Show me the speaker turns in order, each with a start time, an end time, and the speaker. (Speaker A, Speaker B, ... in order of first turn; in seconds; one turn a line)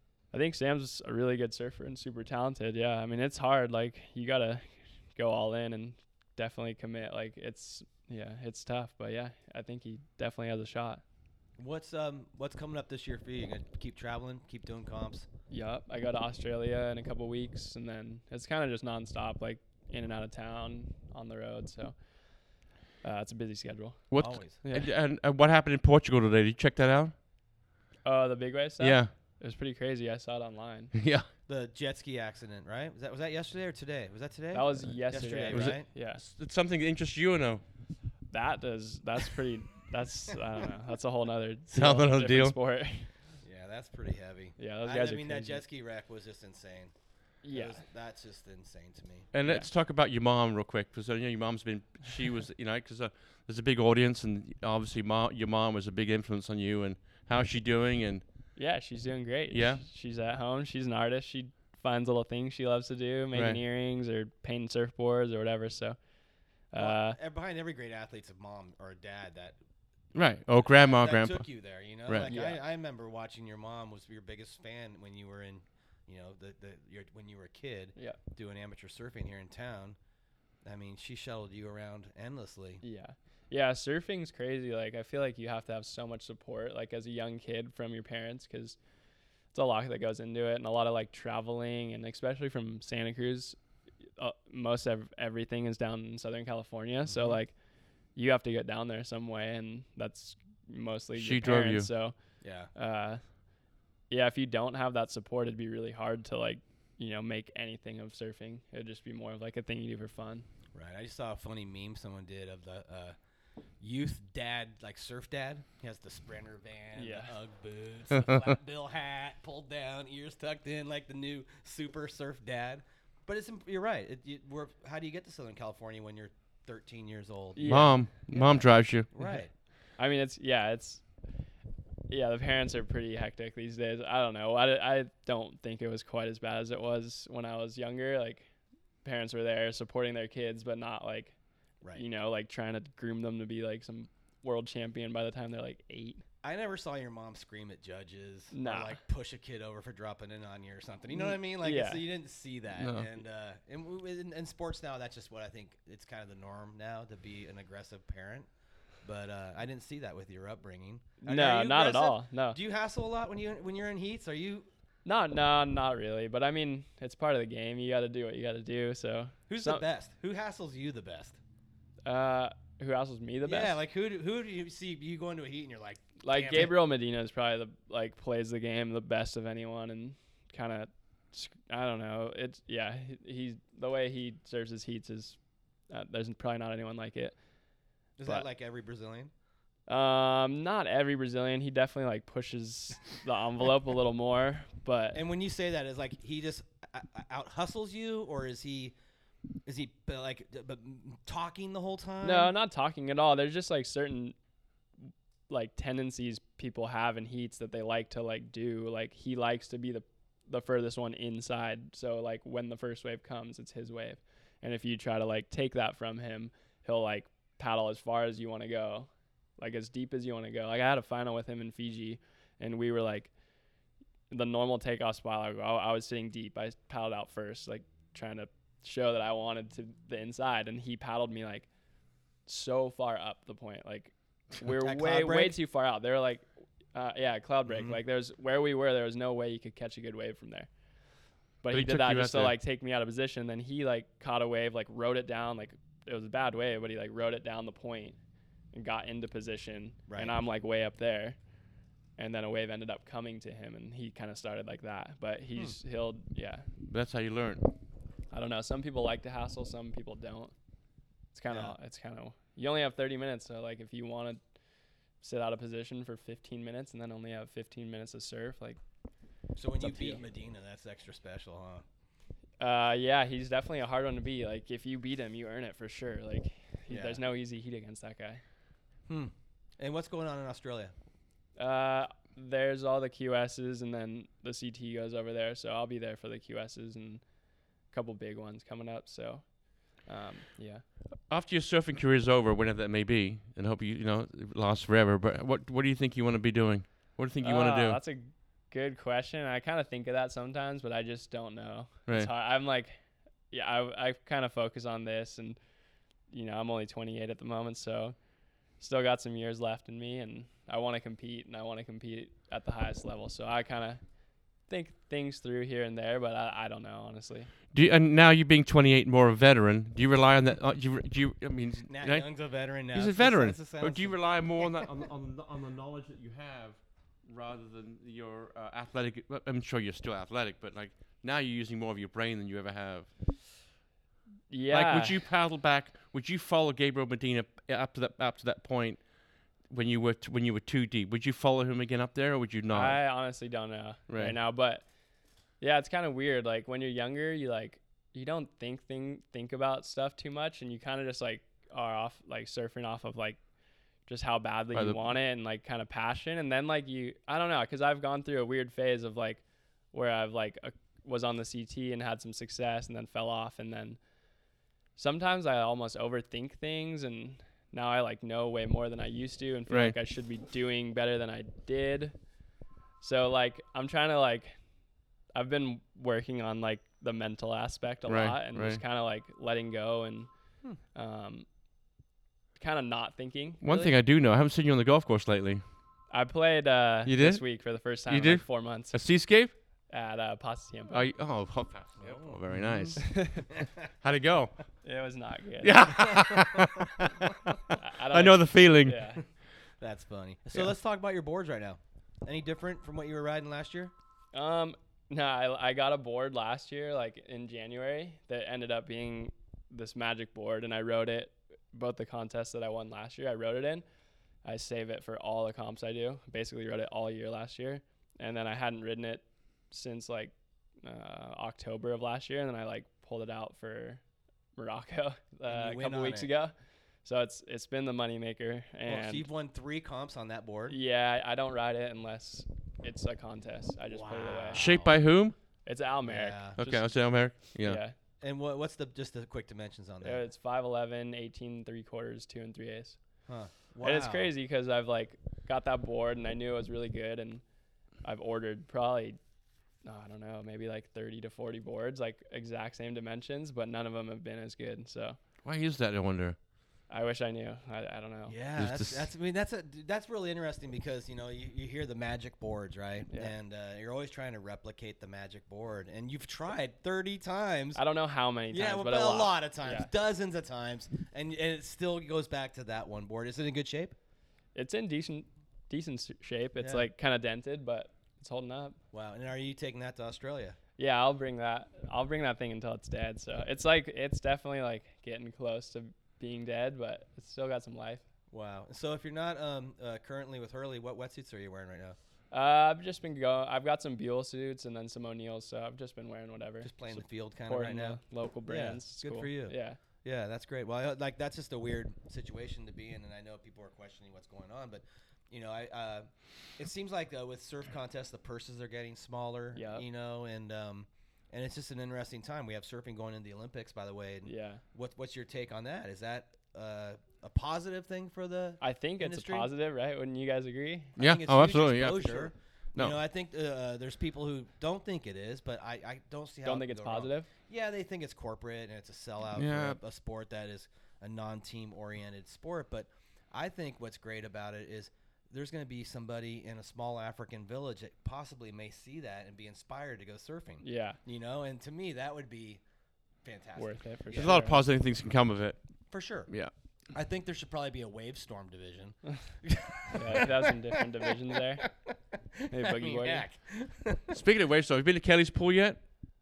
Speaker A: 0.3-11.0
Speaker B: 11.6-15.3
Speaker A: 15.5-21.9
Speaker A: 23.0-24.9
Speaker C: 24.1-27.1
Speaker B: 24.2-24.6
Speaker A: 28.0-30.9
Speaker C: 28.8-29.1
Speaker C: 30.9-31.3
Speaker B: 31.5-35.9
Speaker A: 34.5-36.2
Speaker C: 35.5-37.6
Speaker A: 38.3-43.1
Speaker C: 41.7-42.5
Speaker B: 43.4-46.9
Speaker A: 44.6-45.6
Speaker A: 47.4-47.8
Speaker B: 47.5-49.3
Speaker C: 49.3-58.2
Speaker A: 58.5-66.0
Speaker C: 59.5-59.8
Speaker C: 63.3-63.6
Speaker A: 66.7-67.2
Speaker B: 66.8-69.5
Speaker C: 70.1-71.4
Speaker B: 70.6-80.0
Speaker A: 72.2-72.6
Speaker B: 80.6-82.8
Speaker A: 82.8-88.8
Speaker A: 89.5-93.6
Speaker A: 94.2-97.5
Speaker B: 97.1-97.4
Speaker A: 98.2-102.1
Speaker C: 101.2-101.9
Speaker B: 102.4-102.7
Speaker A: 102.7-103.2
Speaker A: 104.1-110.5
Speaker B: 110.7-113.2
Speaker B: 113.8-127.7
Speaker A: 117.0-117.3
Speaker A: 127.5-128.7
Speaker C: 127.6-129.1
Speaker B: 129.1-129.5
Speaker A: 130.0-131.0
Speaker A: 132.1-138.4
Speaker A: 139.0-141.3
Speaker A: 141.9-146.2
Speaker B: 146.4-158.5
Speaker A: 148.5-149.0
Speaker A: 151.1-152.0
Speaker C: 152.8-153.1
Speaker B: 159.0-164.7
Speaker A: 161.2-162.6
Speaker A: 165.0-169.8
Speaker B: 169.5-171.4
Speaker A: 172.0-173.8
Speaker B: 173.4-176.7
Speaker A: 176.2-185.4
Speaker A: 185.9-187.3
Speaker B: 188.2-189.3
Speaker A: 189.9-195.2
Speaker B: 195.1-198.9
Speaker B: 199.7-202.5
Speaker A: 202.2-204.3
Speaker A: 205.1-223.3
Speaker A: 224.3-231.7
Speaker A: 232.4-240.7
Speaker B: 234.6-235.6
Speaker B: 237.7-238.0
Speaker A: 241.6-248.2
Speaker C: 241.7-242.5
Speaker A: 248.7-251.4
Speaker B: 250.1-250.3
Speaker A: 252.2-256.6
Speaker C: 256.9-257.7
Speaker A: 258.3-260.5
Speaker A: 261.3-264.4
Speaker B: 261.5-261.7
Speaker A: 265.2-268.8
Speaker B: 269.6-271.8
Speaker A: 269.8-270.2
Speaker A: 272.6-278.4
Speaker B: 276.9-277.2
Speaker B: 279.1-280.9
Speaker A: 281.6-287.2
Speaker A: 287.9-289.4
Speaker A: 290.0-290.8
Speaker C: 291.3-298.0
Speaker A: 297.4-303.0
Speaker A: 303.5-305.6
Speaker A: 306.3-308.1
Speaker A: 308.8-314.0
Speaker A: 314.7-317.5
Speaker C: 317.7-322.2
Speaker B: 321.9-324.2
Speaker C: 322.9-333.1
Speaker A: 334.5-335.2
Speaker C: 334.7-339.0
Speaker C: 339.7-343.0
Speaker A: 342.7-344.8
Speaker C: 344.1-344.4
Speaker A: 345.6-353.4
Speaker A: 354.1-359.4
Speaker C: 354.7-355.0
Speaker A: 359.9-364.0
Speaker A: 364.9-372.1
Speaker C: 369.7-369.9
Speaker A: 373.0-374.5
Speaker A: 375.3-380.3
Speaker C: 378.1-378.8
Speaker A: 380.9-381.4
Speaker A: 382.6-383.9
Speaker C: 383.6-385.6
Speaker A: 386.1-389.0
Speaker C: 387.0-387.4
Speaker C: 388.1-389.5
Speaker A: 389.9-391.1
Speaker C: 390.9-394.5
Speaker B: 392.0-393.0
Speaker A: 393.0-393.5
Speaker A: 394.8-396.1
Speaker C: 395.6-399.1
Speaker B: 396.1-396.6
Speaker A: 397.7-399.2
Speaker B: 399.8-403.9
Speaker A: 404.3-413.8
Speaker A: 414.4-424.0
Speaker A: 424.6-426.5
Speaker B: 425.4-426.3
Speaker A: 427.0-429.3
Speaker B: 428.9-430.8
Speaker A: 430.7-434.7
Speaker B: 433.9-435.0
Speaker C: 434.5-435.4
Speaker A: 435.6-436.9
Speaker B: 436.1-436.6
Speaker C: 436.6-437.8
Speaker A: 437.4-437.9
Speaker B: 438.2-440.2
Speaker A: 440.0-443.0
Speaker B: 443.3-444.3
Speaker A: 443.8-447.4
Speaker A: 448.0-449.2
Speaker A: 449.8-455.2
Speaker C: 455.4-456.4
Speaker A: 456.9-458.4
Speaker B: 458.3-467.8
Speaker C: 458.6-459.1
Speaker A: 467.8-469.9
Speaker B: 468.5-473.9
Speaker A: 474.5-478.8
Speaker B: 476.6-476.9
Speaker B: 478.9-480.6
Speaker A: 480.8-488.0
Speaker B: 488.3-492.0
Speaker A: 492.3-499.8
Speaker B: 496.6-519.5
Speaker A: 509.5-509.8
Speaker A: 514.2-514.6
Speaker A: 518.6-521.0
Speaker B: 521.0-542.6
Speaker C: 521.0-523.0
Speaker A: 526.4-527.3
Speaker C: 529.4-529.8
Speaker A: 540.6-541.0
Speaker B: 543.2-544.4
Speaker A: 543.6-544.6
Speaker C: 544.1-545.6
Speaker B: 545.9-546.3
Speaker B: 546.9-554.1
Speaker A: 549.9-551.7
Speaker A: 552.5-553.2
Speaker C: 554.1-555.8